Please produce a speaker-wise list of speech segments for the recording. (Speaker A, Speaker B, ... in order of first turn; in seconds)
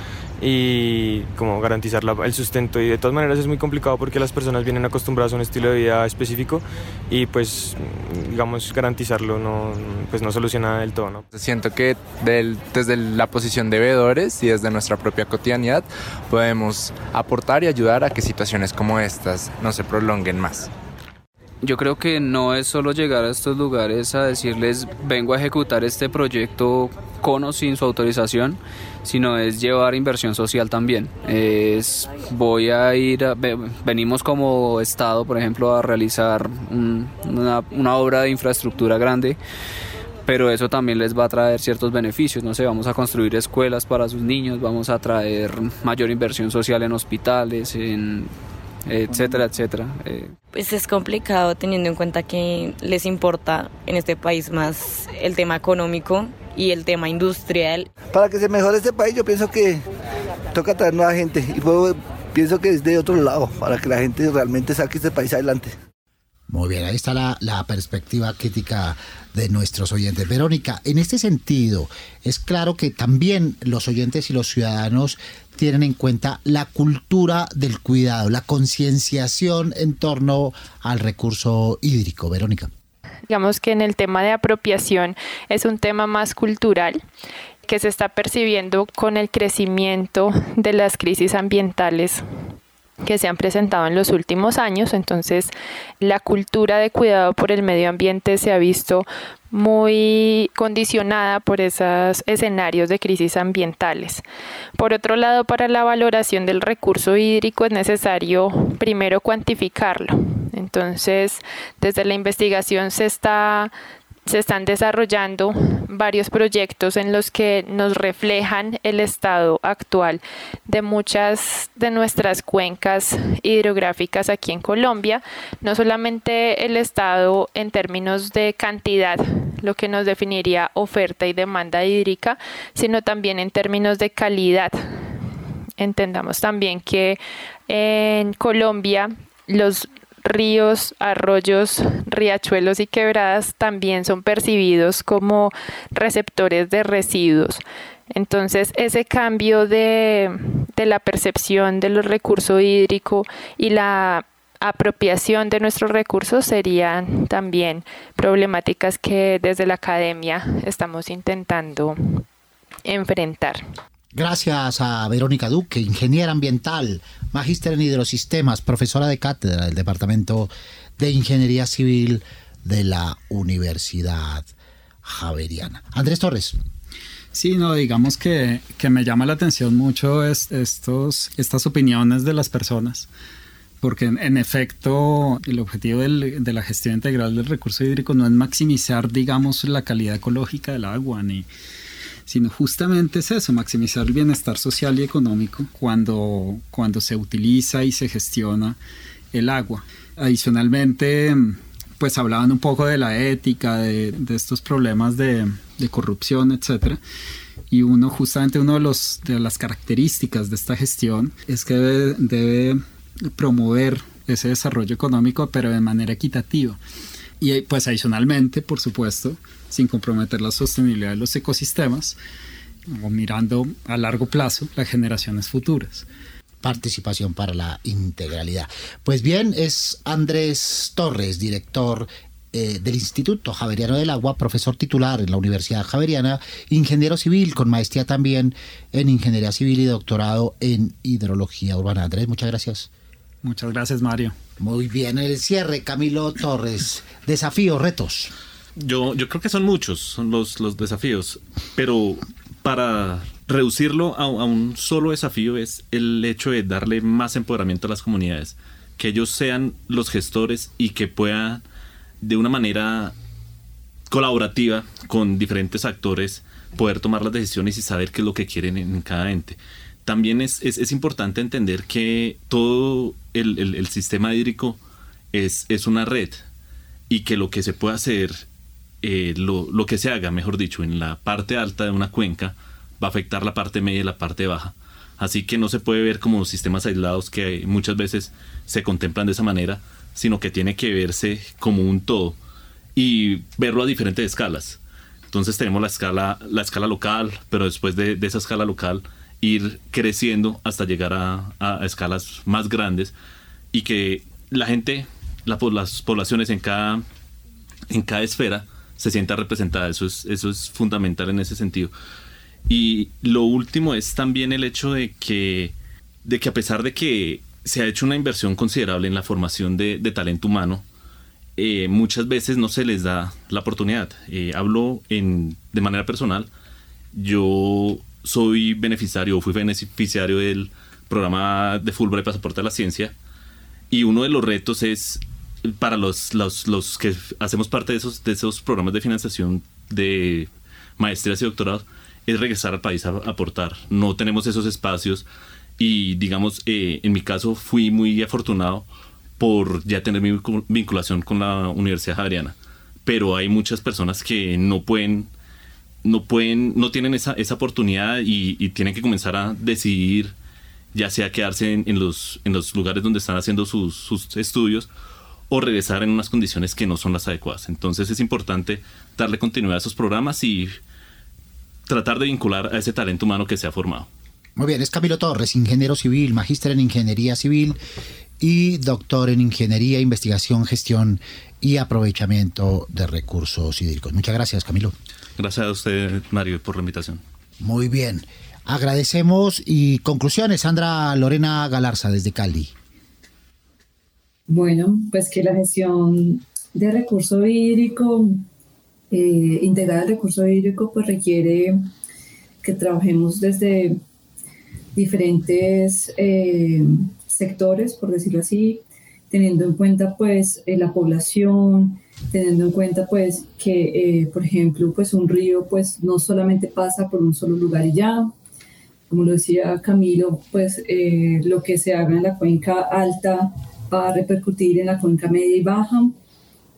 Speaker A: 0.4-11.2
Speaker B: 11.3-20.7
Speaker C: 21.6-39.4, 40.2-48.3, 48.9-50.3
Speaker D: 50.5-57.9
Speaker E: 58.1-59.9, 60.5-65.8
Speaker F: 66.5-82.7, 164.1-174.5, 175.0-176.6, 226.6-242.9, 244.6-248.3, 374.6-377.8, 378.4-384.9, 387.6-392.7
Speaker G: 83.3-87.0, 87.7-92.2, 93.0-104.2, 104.8-113.7, 114.3-134.7, 135.8-162.2, 162.8-163.6
Speaker H: 177.3-183.1, 183.8-191.5, 192.3-198.8, 199.3-207.0, 207.7-212.8, 213.3-216.8, 217.4-222.2, 222.9-226.1, 243.4-244.3
Speaker I: 248.8-261.6, 262.2-263.1, 264.1-274.8, 275.3-276.4, 277.1-278.4, 279.0-292.4, 292.9-294.8, 295.3-303.1, 303.7-307.0, 307.9-311.9, 312.7-320.8, 321.6-326.5, 327.1-333.1, 333.9-345.2, 345.8-348.9, 349.4-355.3, 356.0-360.3, 360.9-364.9, 365.5-370.8, 371.9-374.1, 385.4-387.2
Speaker J: 394.5-398.4, 399.1-401.8, 402.6-404.0, 404.9-418.3, 419.1-426.1